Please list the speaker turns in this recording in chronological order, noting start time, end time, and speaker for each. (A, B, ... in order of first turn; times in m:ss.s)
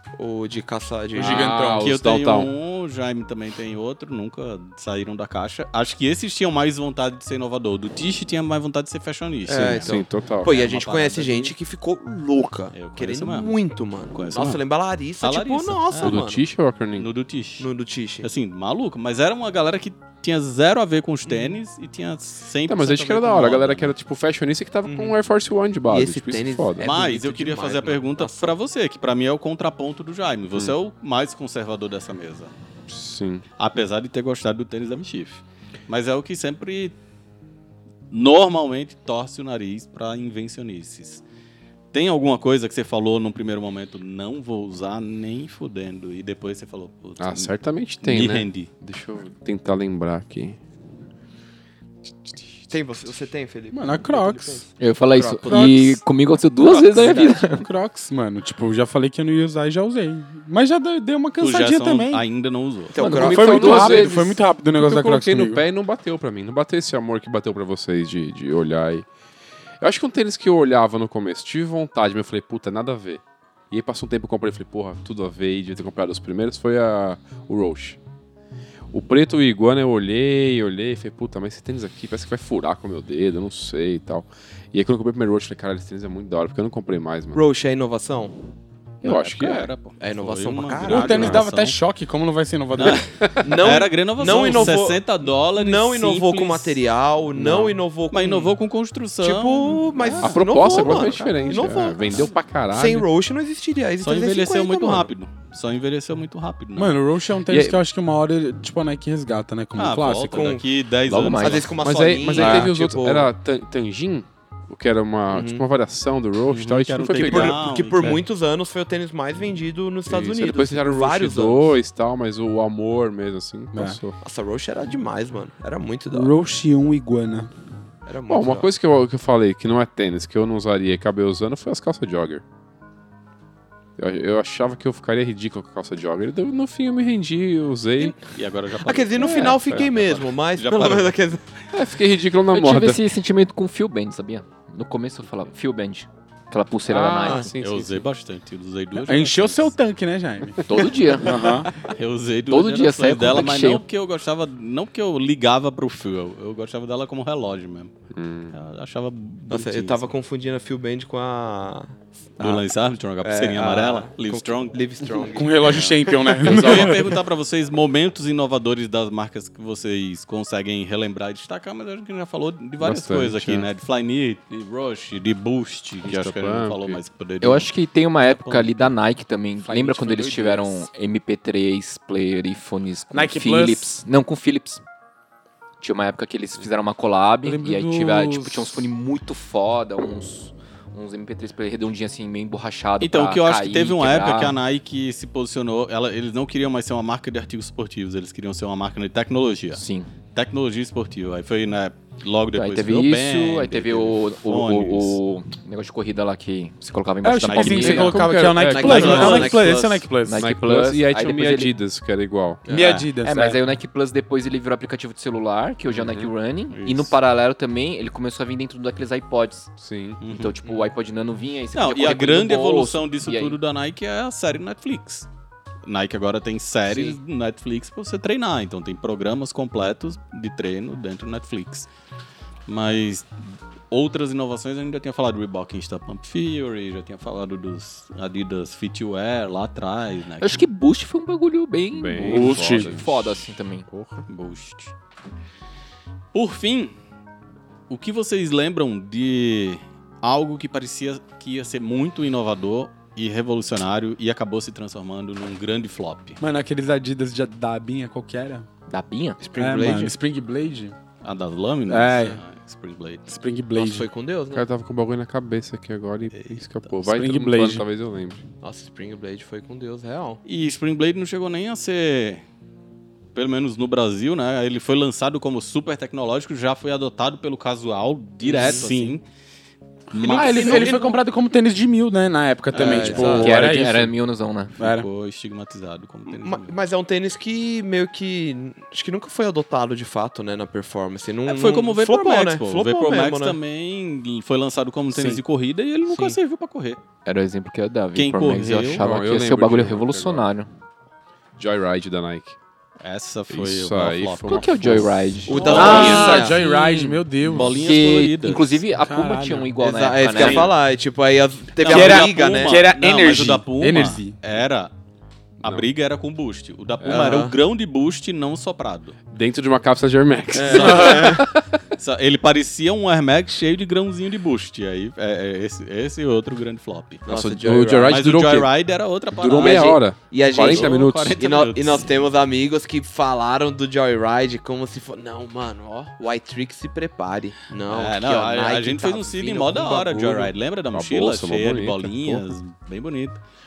0:00.2-0:01.7 A
0:01.1-0:02.5 B
0:01.2-0:01.8 C
0:01.8-0:11.5 D
0:09.4-0:16.4 A
0:09.6-0:10.5 B
0:12.7-0:13.5 D
0:14.1-0:14.6 D
0:15.2-0:16.2 D
0:16.0-0:17.1 B
0:17.0-0:17.7 D
0:17.6-0:18.3 A
0:18.2-0:23.9 D
0:21.3-0:21.5 A
0:22.6-0:26.9 B
0:24.8-0:25.1 A
0:25.9-0:28.5 A
0:26.8-0:32.5 D
0:32.9-0:33.4 B
0:33.6-0:36.9 D
0:38.1-0:41.2 D
0:41.9-0:48.7 D
0:47.2-0:50.6 B
0:52.7-0:55.8 A
0:53.7-0:54.7 C
0:54.8-0:57.6 E
0:55.4-0:56.0 C
0:56.7-0:57.3 A
0:56.9-1:02.2 C
1:01.4-1:03.0 D
1:02.9-1:03.7 A
1:03.0-1:04.3 E
1:03.1-1:09.1 B
1:03.2-1:05.6 C
1:09.8-1:18.0 B
1:18.9-1:27.4 B
1:27.3-1:28.4 A
1:29.0-1:31.8 D
1:29.0-1:29.7 B
1:30.0-1:31.4 A
1:30.8-1:33.0 C
1:32.8-1:36.8 D
1:33.2-1:33.8 B
1:33.4-1:35.0 A
1:34.3-1:34.7 B
1:35.5-1:38.5 A
1:37.4-1:40.3 D
1:39.2-1:45.1 A
1:40.2-1:43.1 B
1:40.5-1:41.7 E
1:44.0-1:47.0 D
1:46.7-1:50.5 C
1:47.5-1:47.8 B
1:49.7-1:51.8 D
1:50.3-1:50.6 A
1:51.0-1:51.7 E
1:51.4-1:53.3 A
1:51.8-1:58.1 B
1:55.3-1:55.6 A
1:56.5-1:58.2 D
1:57.1-2:01.8 A
2:00.1-2:04.2 B
2:03.7-2:04.0 C
2:04.2-2:06.3 A
2:06.1-2:07.5 C
2:08.0-2:08.7 A
2:08.3-2:12.4 B
2:14.0-2:18.2 B
2:18.0-2:21.2 D
2:18.8-2:21.4 A
2:19.2-2:19.6 E
2:19.5-2:19.8 B
2:21.7-2:23.0 B
2:22.5-2:27.5 E
2:26.9-2:28.0 B
2:27.2-2:27.5 A
2:27.6-2:29.7 D
2:29.0-2:31.7 C
2:30.6-2:31.5 E
2:31.8-2:37.9 D
2:32.5-2:33.8 E
2:38.1-2:38.5 B
2:38.5-2:40.1 D
2:39.5-2:42.6 A
2:42.4-2:44.9 D
2:43.2-2:46.1 A
2:45.1-2:47.1 C
2:45.6-2:57.7 D
2:46.4-2:47.0 B
2:52.8-2:53.7 B
2:56.0-2:57.0 B
2:57.4-3:04.8 E
2:58.3-2:58.9 D
2:59.6-3:00.8 C
3:03.1-3:04.0 C
3:05.8-3:14.6 E
3:07.4-3:08.8 C
3:13.0-3:19.8 D
3:19.7-3:20.1 E
3:20.3-3:25.2 D
3:22.5-3:28.3 E
3:27.2-3:30.4 C
3:27.5-3:28.2 D
3:27.7-3:29.5 B
3:28.6-3:30.1 A
3:28.8-3:29.6 D
3:30.2-3:31.7 E
3:30.3-3:32.6 B
3:32.6-3:33.1 D
3:32.7-3:33.6 C
3:33.2-3:43.6 E
3:35.9-3:36.3 B
3:36.7-3:37.1 D
3:39.8-3:40.2 B
3:40.2-3:40.6 D
3:41.7-3:45.3 D
3:45.8-3:51.9 D
3:46.9-3:47.2 E
3:52.7-4:00.6 D
4:00.4-4:03.8 E
4:01.9-4:04.2 B
4:02.2-4:03.0 C
4:04.3-4:04.9 D
4:06.3-4:06.9 D
4:07.9-4:16.4 D
4:16.4-4:18.7 C
4:18.9-4:19.4 E
4:19.4-4:20.0 B
4:19.5-4:20.1 A
4:19.6-4:21.0 C
4:21.2-4:23.3 D
4:21.9-4:22.4 C
4:23.3-4:24.1 C
4:23.7-4:24.6 A
4:24.5-4:28.4 B
4:26.3-4:26.9 D
4:27.0-4:27.8 C
4:28.6-4:30.4 A
4:30.4-4:32.4 D
4:33.3-4:39.2 D
4:38.4-4:39.1 A
4:40.1-4:41.0 D
4:40.1-4:44.1 C
4:40.2-4:41.2 A
4:42.7-4:43.5 D
4:42.7-4:43.5 A
4:43.2-4:44.7 E
4:44.8-4:45.1 C
4:44.8-4:46.7 D
4:46.3-4:53.6 A
4:51.4-4:57.0 D
4:55.1-4:55.4 C
4:57.2-5:00.7 E
4:58.1-4:59.0 D
4:58.9-5:00.4 B
5:01.6-5:02.6 B
5:03.0-5:08.8 D
5:03.5-5:06.4 B
5:04.4-5:06.3 E
5:05.5-5:06.6 A
5:05.7-5:07.8 C
5:07.5-5:10.7 E
5:09.0-5:09.8 C
5:09.8-5:12.8 A
5:10.4-5:10.7 D
5:11.8-5:14.9 D
5:11.8-5:14.4 C
5:15.6-5:19.2 D
5:17.0-5:17.4 B
5:17.1-5:17.6 A
5:19.3-5:21.8 B
5:20.5-5:21.5 A
5:20.7-5:21.3 C
5:22.0-5:27.2 D
5:27.2-5:28.2 A
5:27.3-5:28.7 B
5:28.0-5:32.1 D
5:29.3-5:31.4 B
5:29.6-5:40.5 A
5:37.9-5:43.4 D
5:40.9-5:42.5 B